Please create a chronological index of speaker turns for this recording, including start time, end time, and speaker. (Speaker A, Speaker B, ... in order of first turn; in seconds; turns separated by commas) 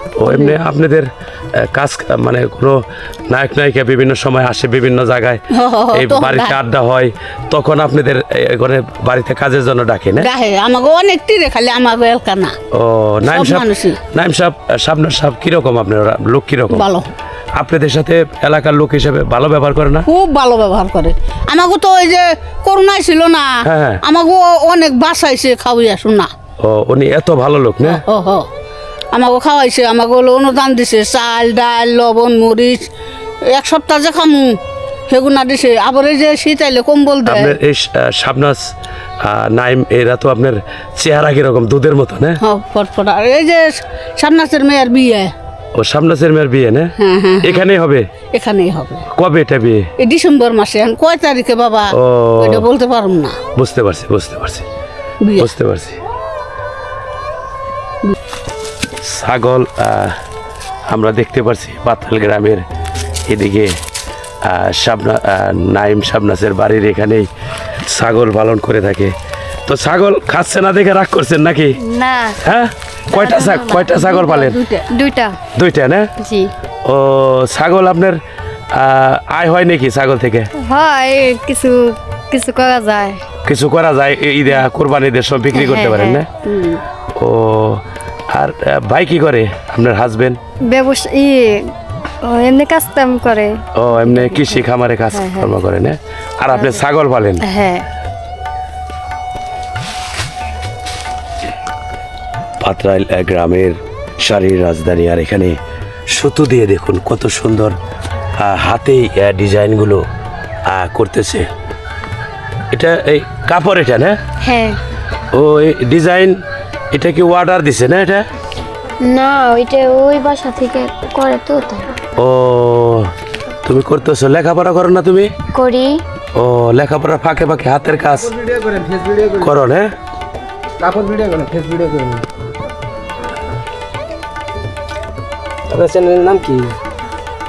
Speaker A: 0.2-5.4, Speaker B: 0.2-0.6, Speaker B: 5.5-6.6, Speaker A: 5.9-10.3, Speaker B: 10.2-12.5, Speaker A: 12.7-16.9, Speaker B: 13.3-14.0, Speaker B: 16.7-17.1, Speaker A: 17.6-20.1, Speaker B: 20.1-23.5, Speaker A: 23.6-24.0, Speaker B: 24.0-26.3, Speaker A: 26.6-28.0, Speaker B: 27.8-28.4, Speaker B: 29.1-32.8, Speaker B: 33.5-34.6, Speaker B: 35.1-37.5, Speaker A: 37.2-38.6, Speaker A: 39.2-42.4, Speaker B: 42.4-45.3, Speaker A: 45.8-46.9, Speaker B: 47.0-47.6, Speaker A: 47.4-48.0, Speaker B: 48.3-49.0, Speaker A: 49.1-49.9, Speaker B: 50.0-53.4, Speaker A: 51.9-52.6, Speaker A: 53.5-54.6, Speaker B: 55.2-55.5, Speaker A: 55.4-56.0, Speaker A: 59.0-60.2, Speaker A: 60.9-62.6, Speaker A: 63.3-63.7, Speaker A: 64.4-67.3, Speaker A: 67.9-69.1, Speaker A: 69.7-71.8, Speaker C: 71.8-72.4, Speaker A: 72.4-74.5, Speaker C: 73.1-74.0, Speaker B: 73.9-74.9, Speaker C: 74.9-75.4, Speaker A: 75.5-76.1, Speaker C: 76.2-76.5, Speaker A: 76.8-78.2, Speaker A: 78.7-80.5, Speaker C: 80.6-83.2, Speaker A: 83.4-86.2, Speaker C: 85.5-86.2, Speaker B: 86.5-86.8, Speaker A: 87.1-90.4, Speaker C: 90.7-95.6, Speaker A: 93.8-97.4, Speaker C: 96.5-96.8, Speaker C: 97.4-97.8, Speaker A: 102.6-105.6, Speaker A: 106.1-107.7, Speaker A: 108.4-110.0, Speaker A: 110.7-111.5, Speaker A: 112.7-114.2, Speaker C: 114.4-114.8, Speaker A: 115.3-116.4, Speaker A: 116.9-118.2, Speaker D: 119.0-121.9, Speaker A: 122.2-123.1, Speaker A: 123.6-125.3, Speaker D: 125.5-126.0, Speaker A: 126.3-128.3, Speaker A: 129.3-129.9, Speaker E: 130.9-131.8, Speaker E: 135.7-136.7